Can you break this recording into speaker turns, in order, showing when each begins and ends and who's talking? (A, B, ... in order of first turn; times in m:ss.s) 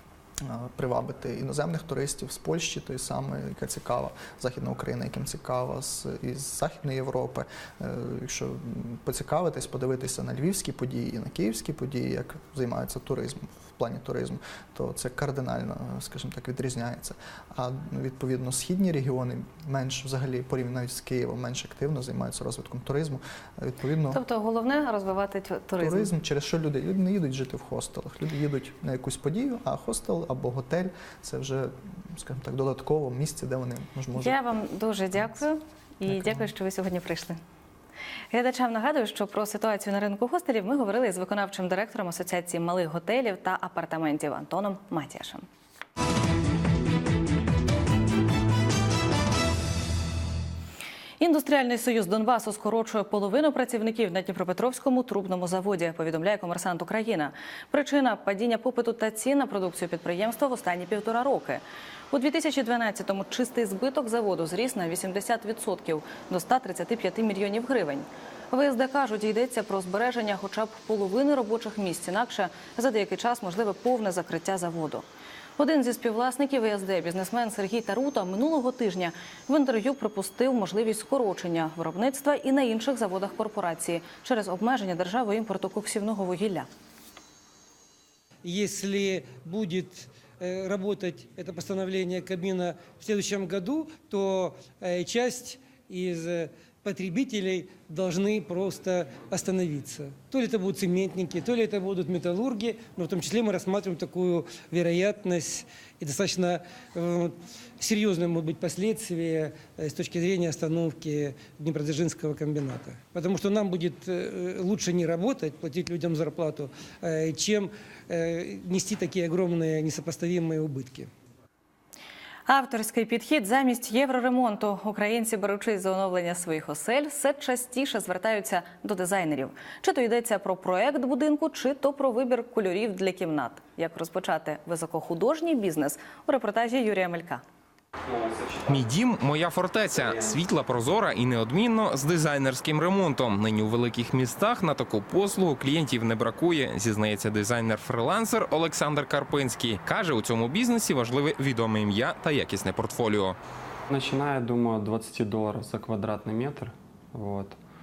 0:00.4-0:24.2 A
0:24.1-0:26.1 B
0:25.8-0:34.4 A
0:34.2-0:37.4 B
0:36.1-0:36.5 A
0:38.3-0:45.4 B
0:51.2-1:15.0 B
1:15.6-1:26.7 B
1:28.4-2:01.1 C
2:02.5-2:17.4 B
2:18.2-2:18.6 D
2:18.7-2:33.4 E
2:33.9-2:37.6 D